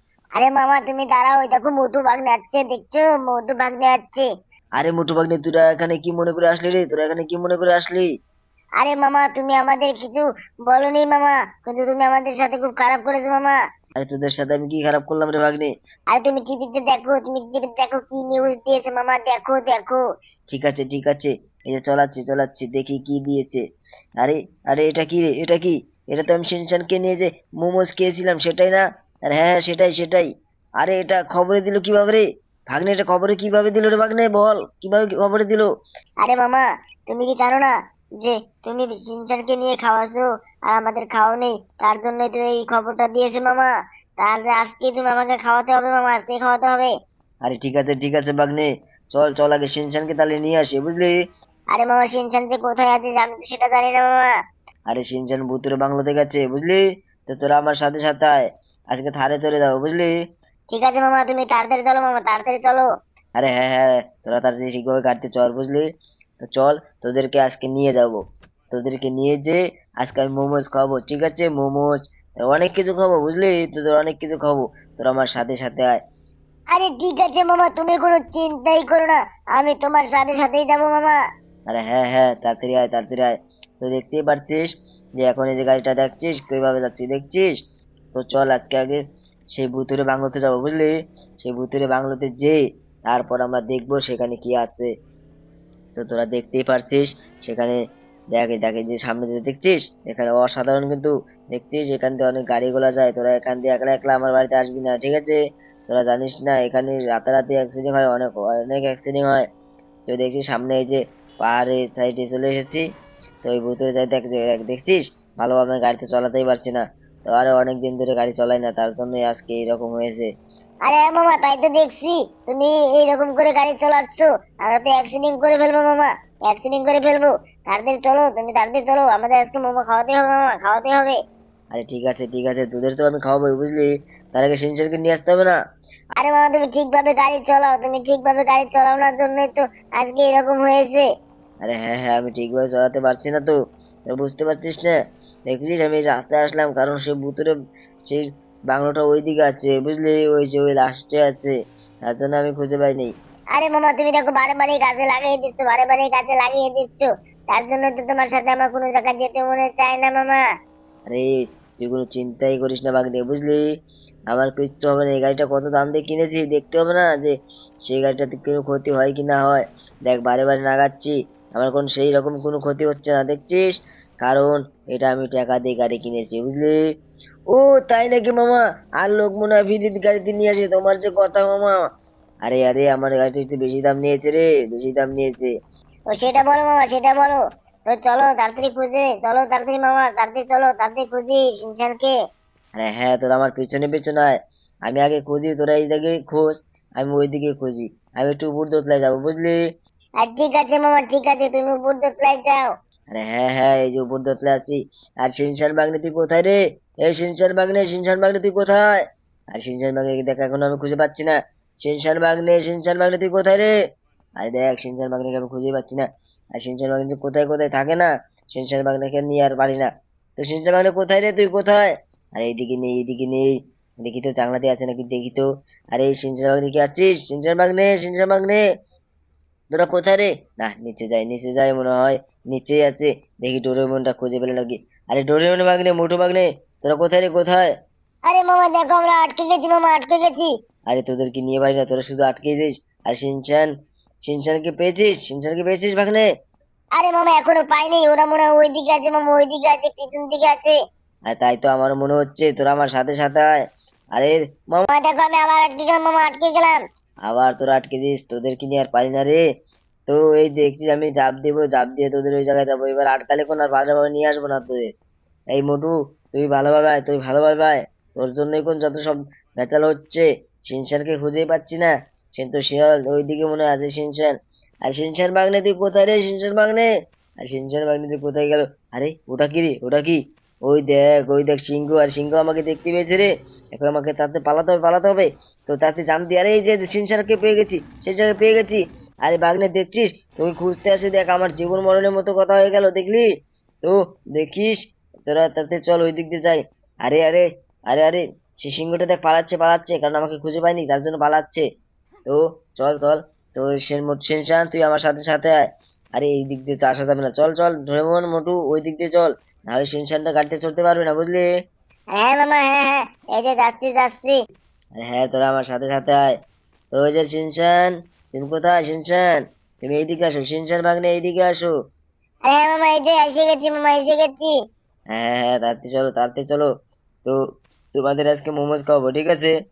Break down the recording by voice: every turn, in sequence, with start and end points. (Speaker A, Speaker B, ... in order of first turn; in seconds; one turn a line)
Speaker A: 0.3-4.3
Speaker B: 4.8-8.1
Speaker A: 8.8-13.6
Speaker B: 13.9-15.7
Speaker A: 16.1-20.0
Speaker B: 20.5-23.6
Speaker B: 24.2-30.3
Speaker B: 30.8-35.7
Speaker A: 36.2-46.9
Speaker B: 47.4-51.1
Speaker A: 51.7-54.3
Speaker B: 54.9-60.1
Speaker A: 60.7-62.9
Speaker B: 63.4-65.9
Speaker B: 66.5-76.0
Speaker A: 76.7-81.2
Speaker B: 81.7-87.5
Speaker B: 88.1-94.9
Speaker B: 96.0-97.8
Speaker B: 98.3-109.5
Speaker B: 110.1-112.8
Speaker B: 113.4-120.3
Speaker A: 120.8-131.2
Speaker B: 131.7-135.6
Speaker A: 136.2-141.1
Speaker B: 141.6-143.6
Speaker B: 144.1-144.9
Speaker B: 145.5-147.5
Speaker B: 148.1-151.5
Speaker B: 152.1-153.1
Speaker A: 153.5-160.4
Speaker B: 161.1-163.6
Speaker B: 164.3-176.8
Speaker B: 177.5-181.8
Speaker B: 182.4-185.5
Speaker A: 186.1-192.1
Speaker B: 192.8-199.6
Speaker A: 200.2-202.7
Speaker B: 203.1-213.7
Speaker B: 214.4-228.6
Speaker B: 229.7-237.7
Speaker A: 238.2-240.5
Speaker B: 240.9-243.7
Speaker B: 244.2-246.2
Speaker A: 247.0-250.8
Speaker B: 251.3-253.6
Speaker B: 254.2-254.9
Speaker A: 254.9-256.8
Speaker B: 257.3-259.4
Speaker B: 260.1-264.9
Speaker B: 265.5-276.9
Speaker B: 277.4-293.3
Speaker B: 293.8-301.6
Speaker B: 302.3-305.6
Speaker B: 306.2-311.5
Speaker A: 312.1-314.4
Speaker B: 314.9-316.4
Speaker B: 316.9-321.7
Speaker A: 322.4-324.5
Speaker B: 325.1-326.7
Speaker B: 327.9-329.5